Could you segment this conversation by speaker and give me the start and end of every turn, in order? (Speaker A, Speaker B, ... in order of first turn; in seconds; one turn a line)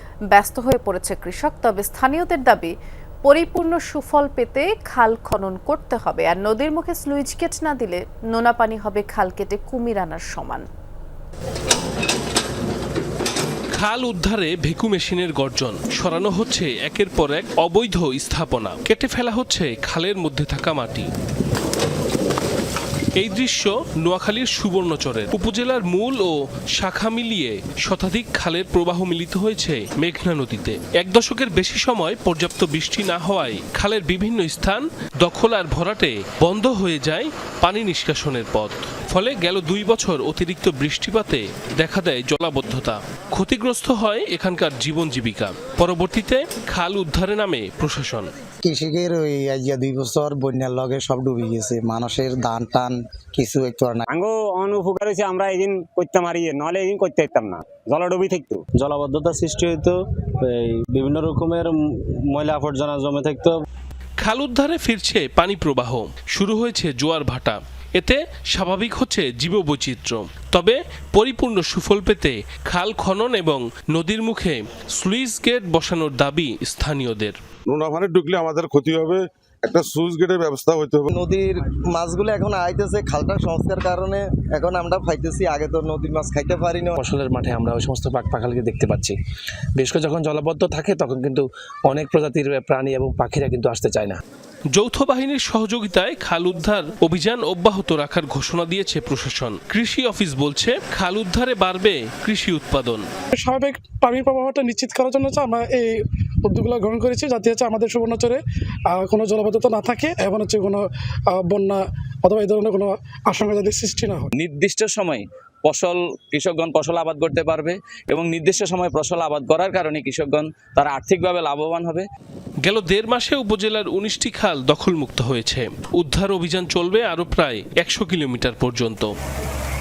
Speaker A: 0.3-2.7
Speaker A: 3.2-10.7
Speaker B: 13.7-21.1
Speaker B: 23.1-48.3
Speaker C: 48.6-54.1
Speaker D: 54.1-58.6
Speaker E: 58.7-60.0
Speaker E: 60.6-61.8
Speaker E: 62.3-63.6
Speaker B: 64.2-77.4
Speaker F: 77.7-81.1
Speaker G: 81.1-87.0
Speaker H: 87.0-89.2
Speaker H: 89.8-94.2
Speaker B: 94.7-103.0
Speaker I: 103.3-114.3
Speaker J: 114.4-122.0
Speaker B: 122.6-129.1